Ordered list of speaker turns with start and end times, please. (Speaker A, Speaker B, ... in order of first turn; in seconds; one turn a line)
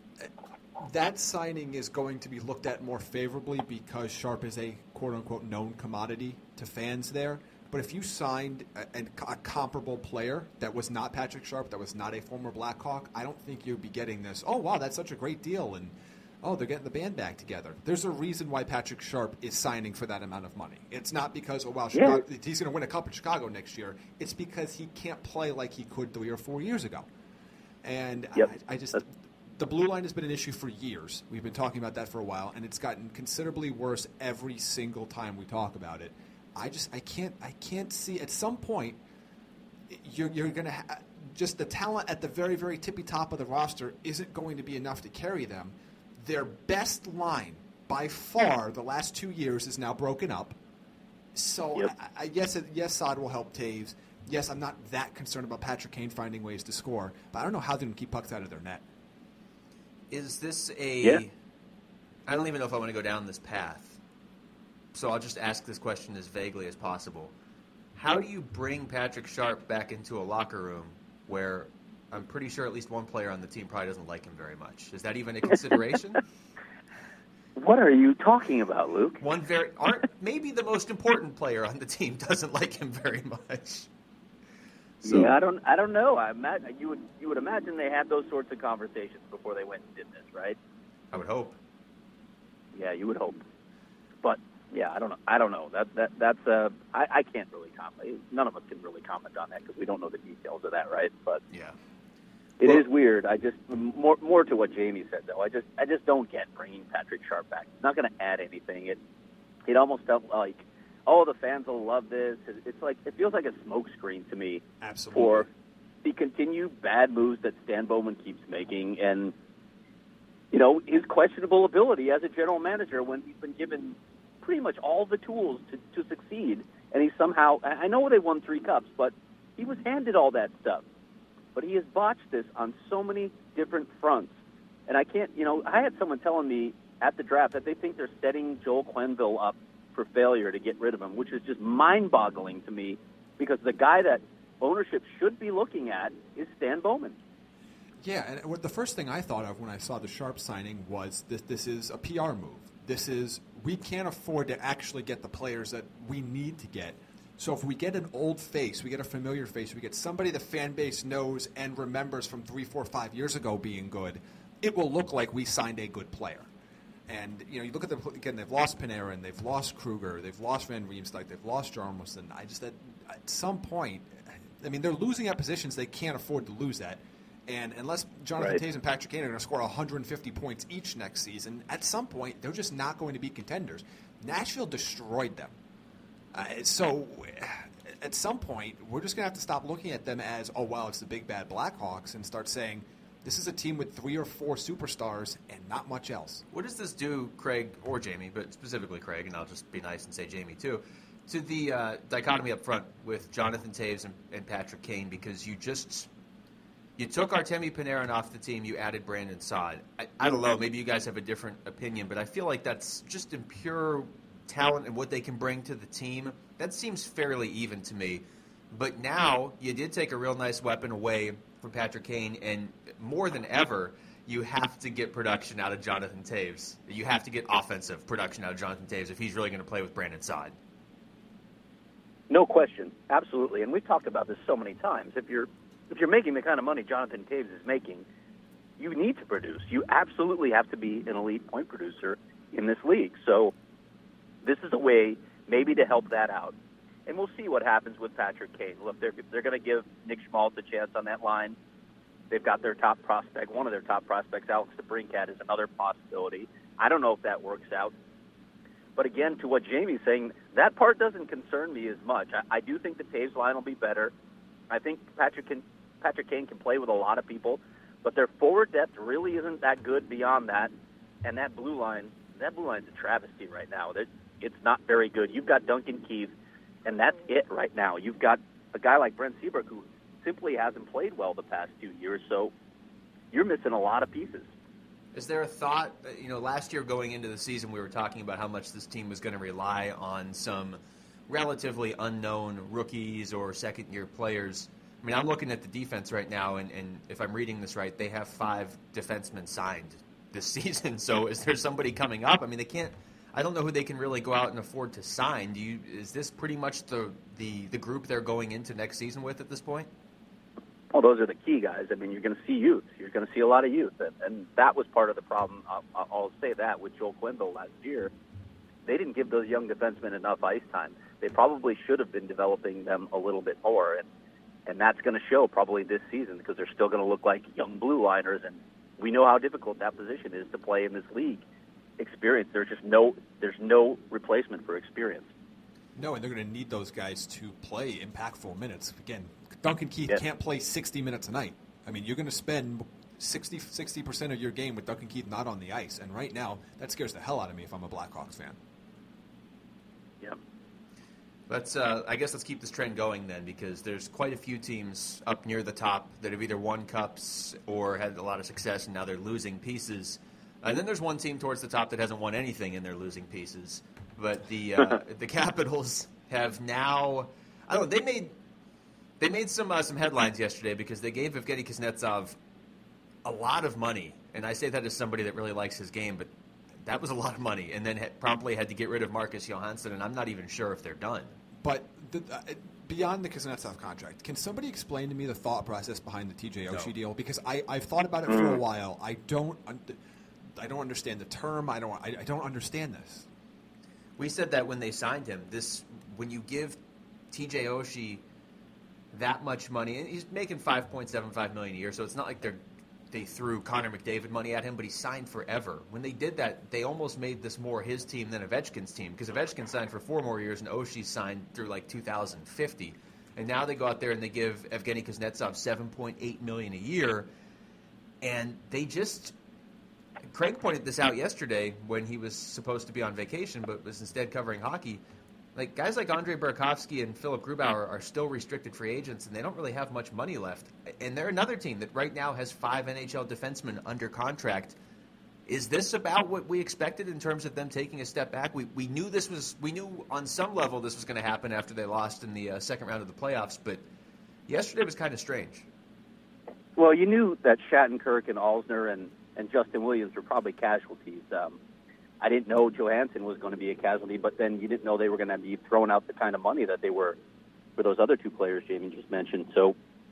Speaker A: 0.2-27.1
Speaker B: 21.9-22.2
Speaker A: 27.8-39.0
Speaker A: 39.9-50.5
Speaker A: 51.3-58.8
Speaker C: 60.1-61.3
Speaker C: 62.3-64.0
Speaker C: 64.9-67.3
Speaker C: 67.9-76.2
Speaker B: 77.5-79.2
Speaker C: 79.2-83.9
Speaker C: 85.0-85.4
Speaker B: 85.0-90.6
Speaker C: 91.1-91.6
Speaker B: 92.7-93.4
Speaker B: 94.2-101.4
Speaker C: 101.5-101.8
Speaker B: 102.6-109.0
Speaker B: 109.7-115.5
Speaker A: 114.8-115.5
Speaker B: 116.0-119.3
Speaker B: 120.5-130.8
Speaker B: 131.5-134.3
Speaker B: 134.9-147.2
Speaker A: 148.0-166.5
Speaker A: 167.1-185.5
Speaker A: 186.3-196.4
Speaker C: 196.5-206.1
Speaker C: 207.0-230.6
Speaker B: 232.3-238.1
Speaker B: 238.8-243.5
Speaker B: 244.4-246.5
Speaker B: 247.1-251.6
Speaker B: 252.3-257.9
Speaker B: 259.0-264.1
Speaker B: 264.7-270.7
Speaker B: 271.2-276.3
Speaker B: 276.8-282.5
Speaker B: 283.3-284.5
Speaker C: 285.1-309.9
Speaker B: 310.9-318.1
Speaker B: 318.9-324.1
Speaker B: 324.7-331.4
Speaker B: 332.0-335.3
Speaker A: 335.9-348.6
Speaker C: 351.5-368.3
Speaker C: 369.2-372.4
Speaker C: 373.2-376.3
Speaker C: 376.8-381.3
Speaker A: 381.6-390.0
Speaker B: 388.3-388.6
Speaker A: 390.6-393.2
Speaker C: 394.2-396.8
Speaker C: 397.3-398.2
Speaker C: 399.1-402.6
Speaker C: 403.1-417.3
Speaker C: 418.2-419.3
Speaker C: 420.3-425.0
Speaker C: 425.5-434.8
Speaker C: 435.5-443.8
Speaker C: 444.5-445.7
Speaker B: 446.8-451.6
Speaker B: 452.2-457.2
Speaker B: 457.8-459.7